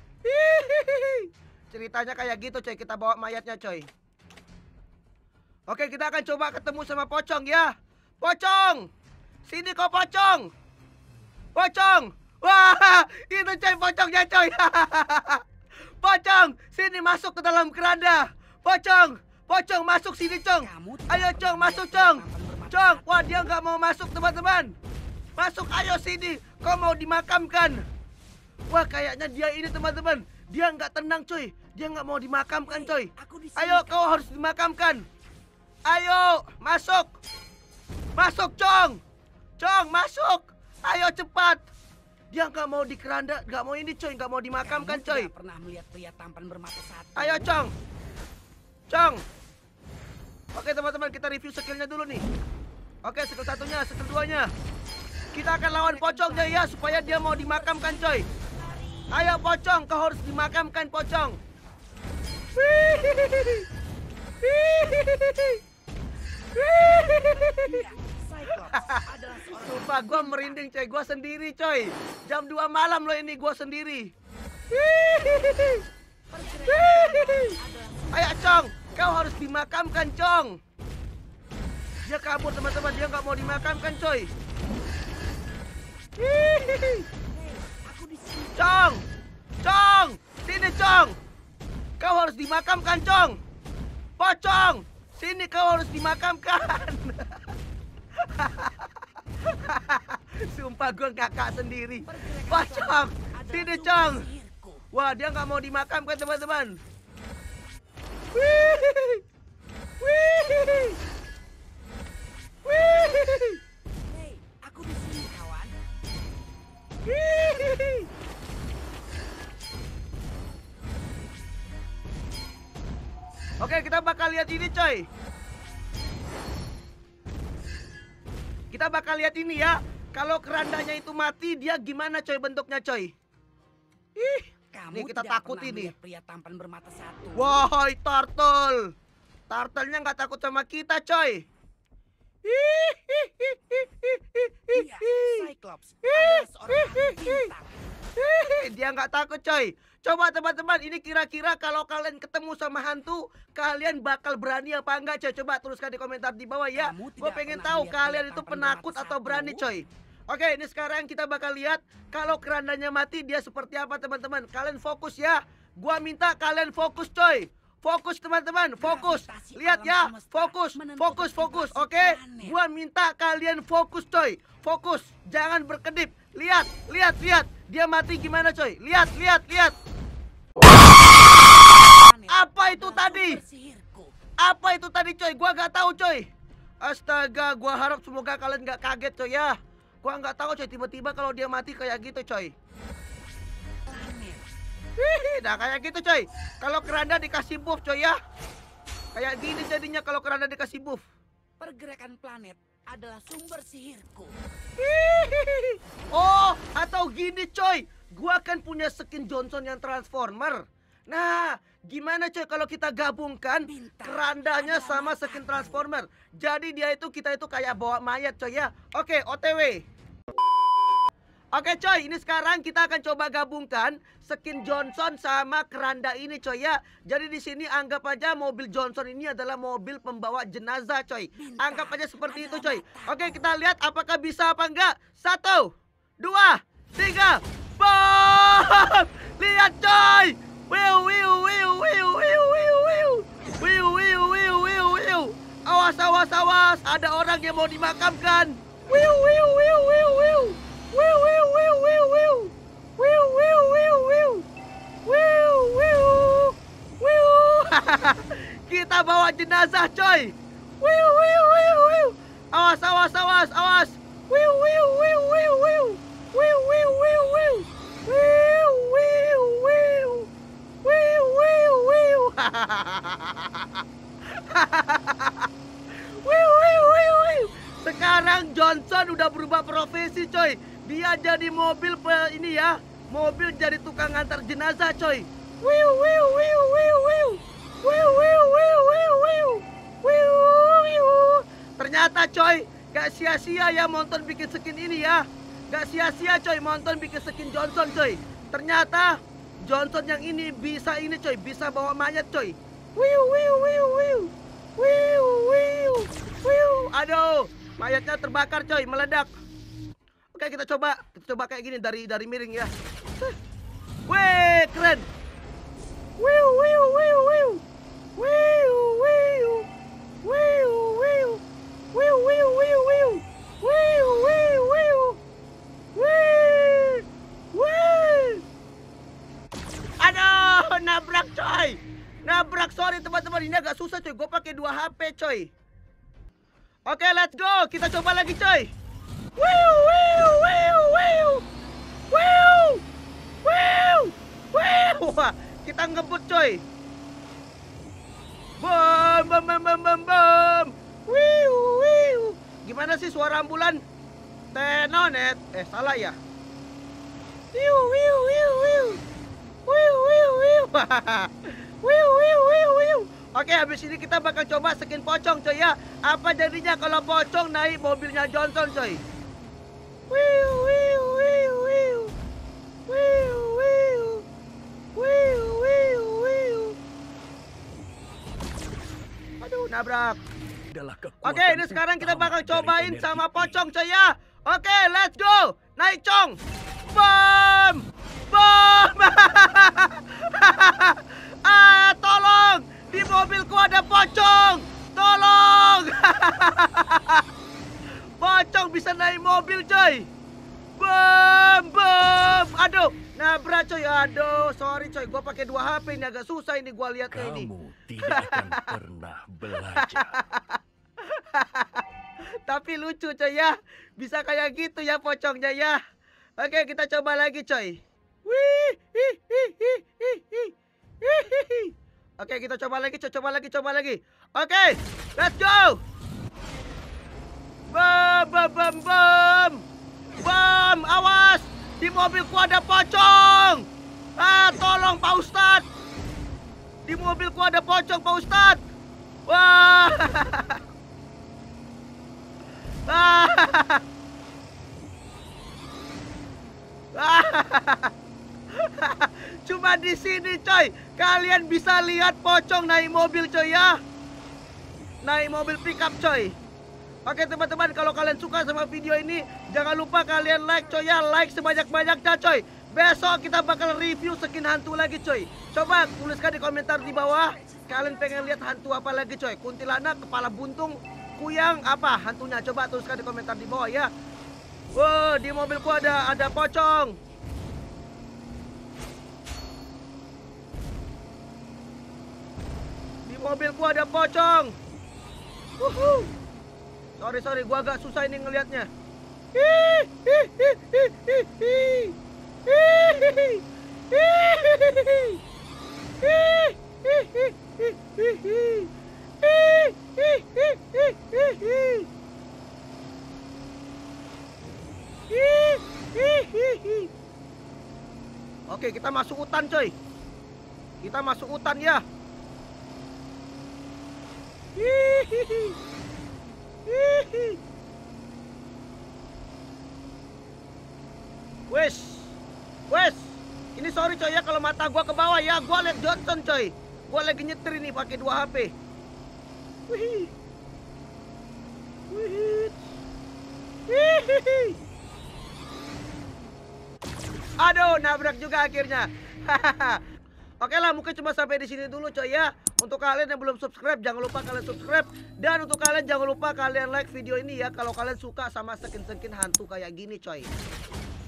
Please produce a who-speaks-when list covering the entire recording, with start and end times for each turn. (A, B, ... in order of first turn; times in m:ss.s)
0:00.2-0:03.9 A
0:05.7-0:08.9 A
0:09.4-0:10.5 A
0:11.6-0:15.4 A
0:16.0-0:24.8 A
0:20.6-0:23.5 B
0:25.4-0:27.8 A
0:28.7-0:35.0 A
0:32.6-0:34.3 B
0:35.9-0:37.2 A
0:38.2-0:39.0 A
0:39.6-0:41.6 A
0:42.3-0:45.3 A
0:44.6-0:47.5 B
0:47.2-0:47.7 A
0:48.9-0:49.2 A
0:50.5-0:52.3 A
0:53.0-0:54.5 A
0:55.3-0:58.3 A
0:55.7-0:59.3 B
0:59.1-1:01.4 A
1:02.6-1:03.7 A
1:04.4-1:05.6 A
1:06.5-1:07.9 A
1:07.0-1:10.7 B
1:08.6-1:14.1 A
1:14.7-1:15.8 A
1:16.3-1:18.9 B
1:16.6-1:17.6 A
1:18.1-1:20.6 A
1:22.0-1:24.3 A
1:26.2-1:27.1 A
1:27.3-1:28.9 B
1:28.6-1:29.0 A
1:29.6-1:31.2 A
1:32.0-1:33.4 A
1:34.2-1:37.4 A
1:38.2-1:38.9 A
1:39.4-1:44.3 A
1:42.1-1:44.8 B
1:44.9-1:46.8 A
1:48.3-1:49.2 A
1:50.0-1:51.0 A
1:52.7-1:53.6 A
1:54.1-1:55.7 B
1:57.1-1:58.1 A
2:03.6-2:05.1 A
2:08.7-2:13.1 A
2:14.2-2:15.9 A
2:14.7-2:17.7 B
2:17.4-2:18.9 A
2:19.5-2:21.5 A
2:22.4-2:25.5 A
2:24.7-2:27.8 B
2:26.0-2:27.5 A
2:28.2-2:59.8 A
2:36.7-2:39.7 B
2:48.8-2:52.6 B
3:01.5-3:04.1 B
3:02.3-3:03.4 A
3:04.4-3:06.3 A
3:06.8-3:12.5 A
3:13.9-3:14.5 B
3:15.0-3:18.2 A
3:19.1-3:21.0 A
3:21.6-3:24.4 B
3:24.8-3:39.8 A
3:33.6-3:35.9 B
3:41.5-4:14.5 A
3:51.3-3:53.5 B
4:15.1-4:30.3 A
4:30.8-5:09.3 A
5:10.3-5:13.4 A
5:14.1-5:15.1 A
5:16.2-5:17.6 A
5:18.2-5:19.7 A
5:20.2-5:21.4 A
5:21.9-5:25.2 A
5:26.0-5:28.4 A
5:30.0-5:35.5 A
5:36.9-5:38.7 A
5:39.4-5:41.4 A
5:42.1-5:42.8 A
5:43.4-5:46.6 A
5:48.6-5:53.8 A
5:54.5-5:56.2 A
5:57.6-5:59.0 A
5:59.7-6:09.0 A
6:10.1-6:12.1 A
6:12.9-6:14.3 A
6:15.0-6:16.8 A
6:19.4-6:20.2 A
6:20.7-6:23.6 C
6:21.2-6:26.4 A
6:26.9-6:37.2 A
6:38.2-6:40.1 A
6:40.8-6:47.5 A
6:47.1-6:50.2 C
6:48.0-6:48.8 A
6:49.8-6:51.8 A
6:52.5-6:55.8 A
6:56.4-7:05.8 A
7:07.7-7:09.6 A
7:10.2-7:13.7 A
7:14.2-7:15.7 A
7:16.8-7:18.6 A
7:19.3-7:20.6 A
7:22.9-7:23.8 A
7:27.0-7:27.9 A
7:28.5-7:33.8 A
7:35.0-7:36.4 A
7:37.1-7:53.9 A
7:46.9-7:48.4 B
7:54.7-7:57.0 A
8:03.0-8:04.6 A
8:05.6-8:06.1 A
8:07.0-8:08.7 A
8:09.4-8:12.0 A
8:12.5-8:15.2 A
8:16.0-8:18.7 A
8:19.2-8:21.9 A
8:25.1-8:26.9 A
8:28.5-8:29.8 A
8:30.8-8:31.8 A
8:34.6-8:35.6 A
8:36.7-8:37.4 A
8:41.5-8:42.2 A
8:42.7-8:48.5 A
8:49.7-8:50.1 A
8:51.9-8:52.6 A
8:53.7-8:54.6 A
8:57.4-8:59.8 A
9:00.4-9:10.3 A